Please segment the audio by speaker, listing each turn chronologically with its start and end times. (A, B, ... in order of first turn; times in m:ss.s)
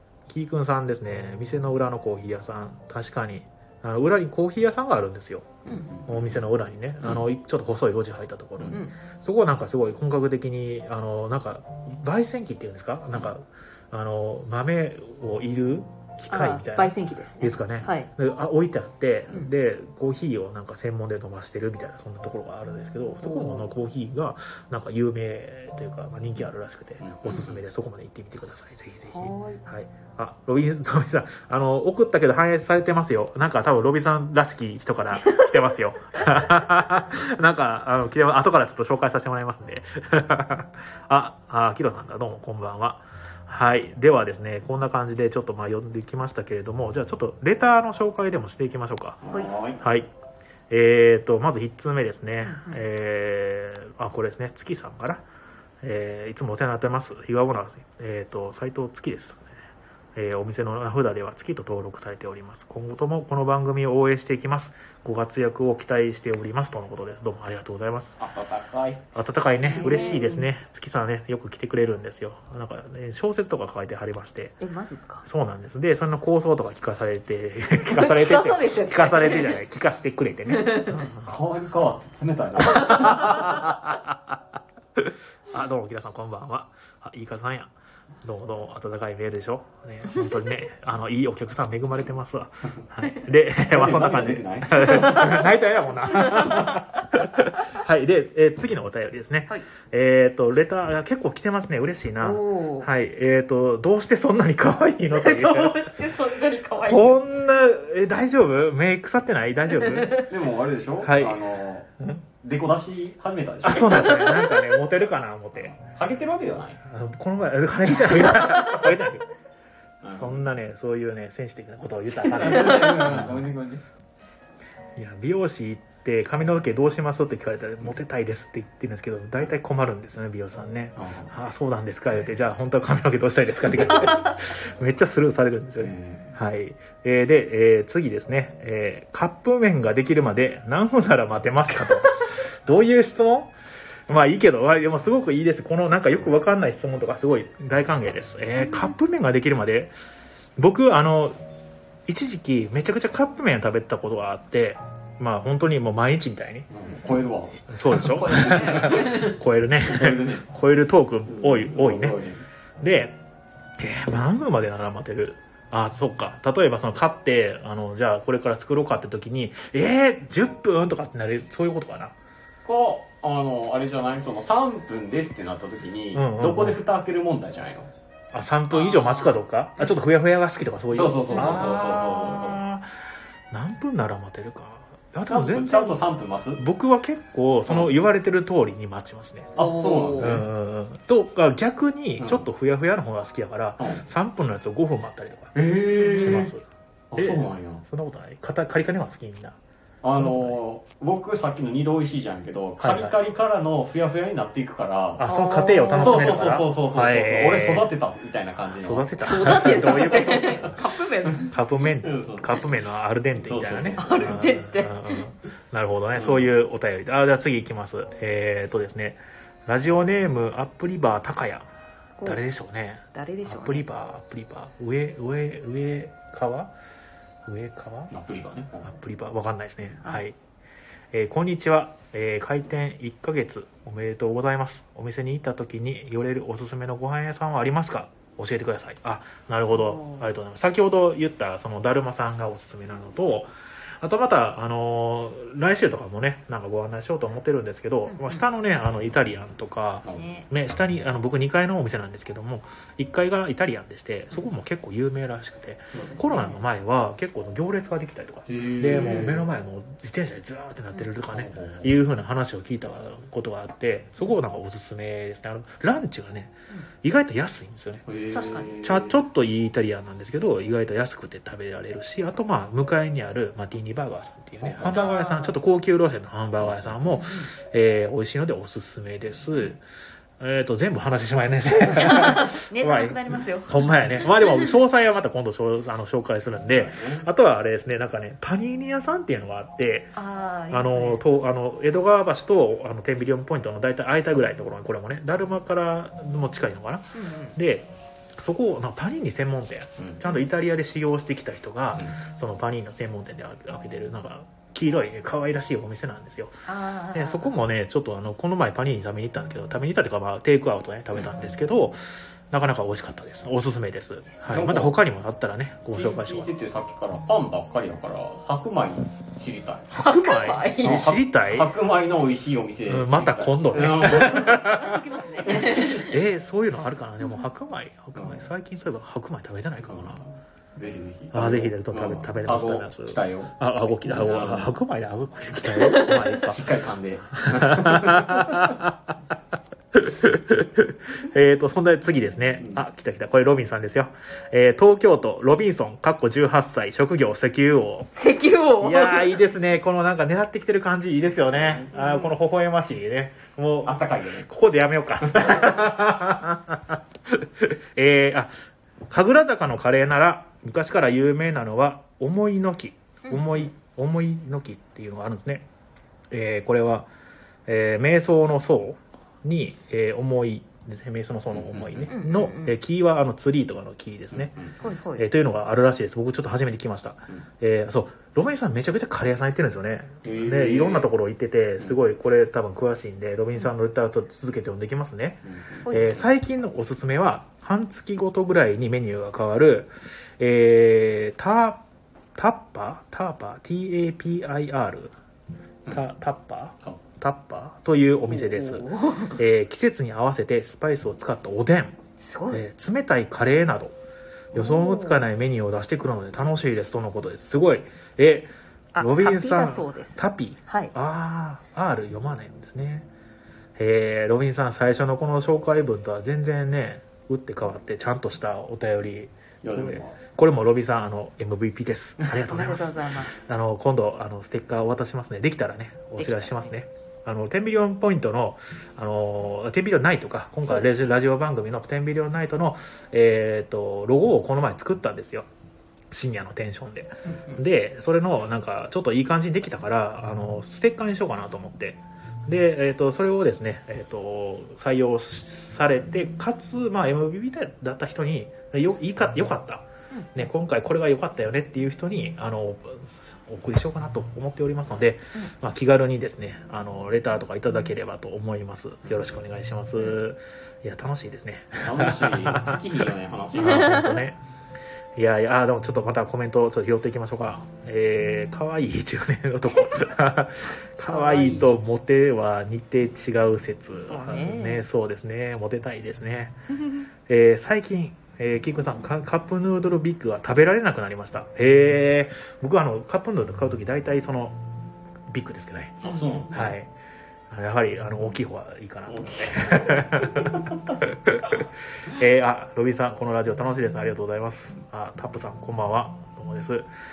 0:00.3-0:49.2 A
0:05.7-0:06.4 B
0:07.0-0:07.3 B
0:16.3-0:18.1 C
0:23.2-0:23.7 C
0:27.0-0:27.6 B
0:29.1-0:29.6 C
0:49.2-0:49.8 B
0:49.8-0:50.1 A
0:50.7-0:55.2 A
0:52.4-0:52.8 C
0:55.8-0:59.5 A
1:00.2-1:08.2 A
1:08.2-1:09.0 B
1:09.1-1:14.6 A
1:09.7-1:10.5 C
1:14.6-1:15.3 C
1:15.2-1:21.3 A
1:17.9-1:19.6 C
1:20.5-1:21.0 C
1:21.2-1:23.5 B
1:22.6-1:24.4 A
1:25.0-1:27.7 A
1:28.2-1:46.0 A
1:33.7-1:36.7 B
1:34.9-1:35.2 C
1:36.2-1:36.8 C
1:42.2-1:42.9 C
1:45.1-1:47.2 C
1:46.8-1:50.3 A
1:49.9-1:50.2 C
1:50.2-1:51.9 B
1:51.0-1:51.4 A
1:52.0-1:52.2 A
1:52.4-1:54.3 B
1:53.6-1:55.8 A
1:54.0-1:54.8 C
1:55.7-1:56.8 B
1:56.9-1:59.3 A
2:00.0-2:00.4 B
2:00.1-2:03.5 A
2:02.3-2:03.8 B
2:05.0-2:23.5 A
2:11.0-2:11.3 B
2:15.8-2:16.4 B
2:24.1-2:29.9 A
2:30.6-2:31.4 A
2:32.1-2:36.7 A
2:36.7-2:40.5 B
2:37.7-2:42.2 A
2:38.2-2:39.1 C
2:41.3-2:42.4 B
2:42.8-2:43.2 A
2:43.8-2:52.1 A
2:52.6-2:57.9 B
2:56.1-2:56.8 A
2:58.3-3:09.6 A
2:58.7-2:59.3 C
3:00.9-3:02.6 B
3:01.3-3:01.9 C
3:05.3-3:06.6 B
3:07.7-3:07.9 B
3:09.6-3:10.5 B
3:09.6-3:10.4 C
3:10.2-3:15.6 A
3:12.2-3:12.5 B
3:13.8-3:14.0 B
3:15.6-3:16.5 B
3:16.0-3:16.5 C
3:16.1-3:19.6 A
3:17.1-3:17.8 B
3:20.0-3:25.3 B
3:20.1-3:20.6 A
3:22.8-3:23.2 A
3:25.2-3:27.9 A
3:25.3-3:26.4 C
3:26.0-3:30.7 B
3:28.8-3:30.8 A
3:29.2-3:31.5 C
3:31.5-3:41.7 A
3:32.0-3:32.8 B
3:33.4-3:34.5 B
3:34.0-3:35.2 C
3:36.2-3:36.5 B
3:42.2-3:46.7 A
3:43.1-3:43.8 C
3:47.5-3:48.1 A
3:48.1-3:48.9 B
3:48.8-3:50.4 A
3:51.1-4:28.1 A
3:59.7-4:00.2 C
4:08.1-4:08.4 C
4:10.1-4:10.5 C
4:16.0-4:16.6 C
4:18.5-4:19.5 B
4:18.9-4:19.3 C
4:21.3-4:22.0 B
4:28.1-4:29.2 B
4:28.3-4:28.7 C
4:28.8-4:39.8 A
4:34.6-4:35.0 B
4:34.9-4:35.6 C
4:36.6-4:37.0 B
4:37.1-4:37.5 C
4:40.4-4:50.2 A
4:41.9-4:44.7 C
4:46.7-4:47.3 B
4:50.2-4:51.2 C
4:50.7-5:12.0 A
4:57.1-4:57.6 C
5:06.7-5:07.5 C
5:11.1-5:11.5 B
5:12.5-5:16.5 A
5:14.5-5:15.0 B
5:15.9-5:19.9 B
5:19.9-5:21.7 A
5:19.9-5:21.1 C
5:20.8-5:24.8 B
5:22.9-5:30.2 A
5:24.4-5:26.1 C
5:28.2-5:28.4 B
5:29.8-5:34.8 B
5:31.3-5:36.6 A
5:35.9-5:38.7 B
5:37.3-5:39.1 A
5:39.9-5:48.1 A
5:48.2-5:49.4 C
5:48.8-5:58.5 A
5:51.6-5:51.9 B
5:51.9-5:52.3 C
5:53.8-5:54.5 B
5:55.2-5:55.8 B
5:59.1-6:05.7 A
6:03.3-6:03.7 C
6:06.3-6:07.1 A
6:07.7-6:14.5 A
6:11.5-6:12.1 B
6:12.1-6:12.8 C
6:14.3-6:14.8 B
6:14.8-6:15.3 C
6:15.2-6:31.8 A
6:20.2-6:21.1 B
6:25.4-6:26.2 B
6:25.9-6:26.2 C
6:32.4-6:35.1 A
6:35.9-6:42.0 A
6:38.3-6:39.4 C
6:42.2-6:42.6 C
6:42.5-6:44.0 A
6:44.5-6:53.1 A
6:44.5-6:45.2 C
6:49.0-6:50.9 C
6:53.8-7:15.5 A
6:59.6-7:00.2 B
7:02.4-7:03.4 C
7:06.2-7:06.7 C
7:10.6-7:10.9 C
7:16.1-7:42.8 A
7:17.3-7:17.6 C
7:39.1-7:39.3 B
7:41.8-7:44.0 B
7:43.6-7:44.4 A
7:43.6-7:44.2 C
7:45.2-7:56.6 A
7:51.1-7:51.7 C
7:54.0-7:54.8 C
7:56.8-7:57.1 C
7:57.3-8:04.6 A
8:05.3-8:06.9 A
8:06.0-8:06.8 B
8:07.5-8:16.9 A
8:09.1-8:11.0 B